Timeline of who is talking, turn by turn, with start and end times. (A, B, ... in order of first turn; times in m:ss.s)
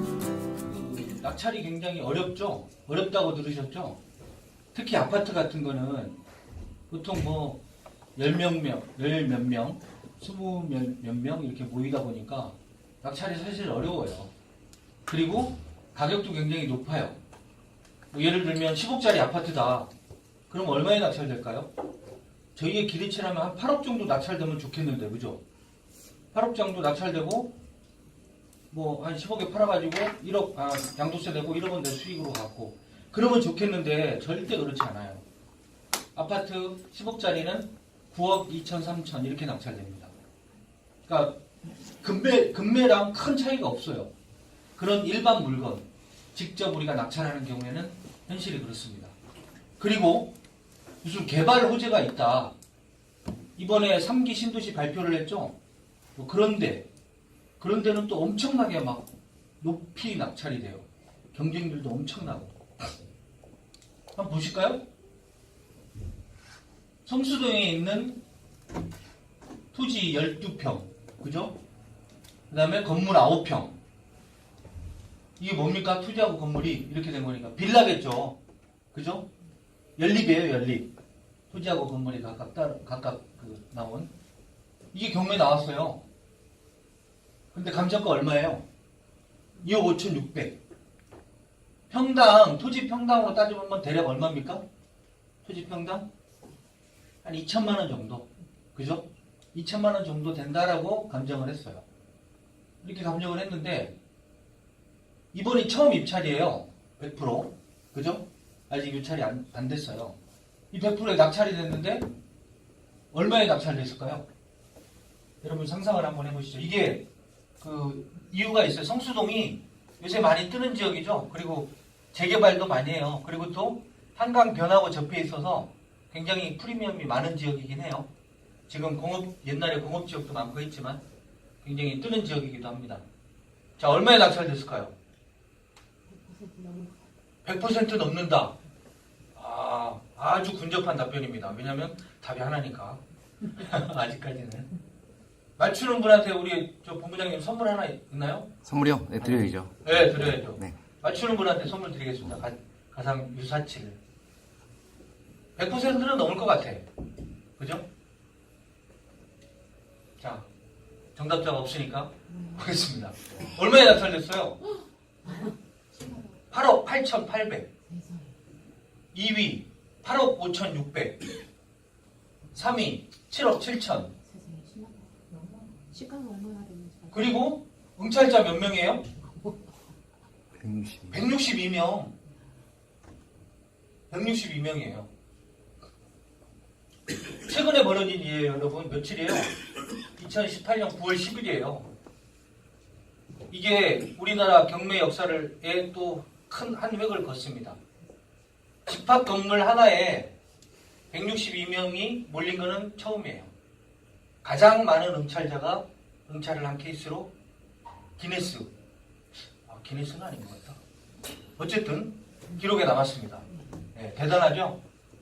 0:00.6-0:04.0 A
0:04.7-0:06.2 A
0:06.9-0:07.6 A
0:08.2-0:14.3 A
0:15.1-0:17.2 A
0:18.1-0:19.9 A
0:20.5-0:21.7 A
0:22.6-0:25.4 A
0:26.3-0:27.6 A
0:28.7-0:35.2 A
0:36.2-0:40.1 A
0:41.1-0:41.4 A
0:42.0-0:44.1 A
0:44.8-0:49.1 A
0:49.8-0:50.4 A
0:51.0-0:52.5 A
0:53.6-0:55.6 A
0:56.2-0:56.9 A
0:57.6-0:59.1 A
0:59.6-1:02.6 A
1:04.2-1:04.8 A
1:07.1-1:08.2 A
1:09.7-1:11.6 A
1:12.5-1:13.8 A
1:15.4-1:18.4 A
1:18.9-1:19.3 A
1:20.0-1:20.9 A
1:21.5-1:24.1 A
1:24.9-1:26.0 A
1:27.5-1:28.6 A
1:29.6-1:30.6 A
1:31.9-1:34.6 A
1:35.4-1:36.0 A
1:37.2-1:41.8 A
1:42.8-1:44.0 A
1:45.3-1:50.2 A
1:50.7-1:52.1 A
1:53.1-1:54.3 A
1:55.4-1:57.1 A
1:57.6-2:08.1 A
2:08.7-2:11.0 A
2:11.6-2:13.0 A
2:13.8-2:15.0 A
2:16.2-2:17.0 B
2:17.4-2:18.6 A
2:19.4-2:24.7 A
2:25.6-2:28.6 A
2:28.6-2:30.8 C
2:29.2-2:34.0 A
2:35.6-2:36.9 A
2:37.6-2:37.9 A
2:40.2-2:40.5 A
2:41.2-2:44.6 A
2:46.0-2:46.2 B
2:46.5-2:47.7 A
2:47.9-2:48.3 B
2:49.1-2:51.2 A
2:52.5-2:54.2 A
2:54.3-2:57.1 B
2:57.1-2:59.0 A
3:00.6-3:01.1 C
3:01.1-3:02.1 A
3:04.1-3:05.1 A
3:07.5-3:09.6 A
3:10.2-3:11.9 A
3:13.5-3:17.8 A
3:18.9-3:20.3 A
3:21.1-3:23.5 A
3:24.4-3:27.3 A
3:28.2-3:28.7 A
3:29.6-3:30.8 A
3:31.6-3:34.8 A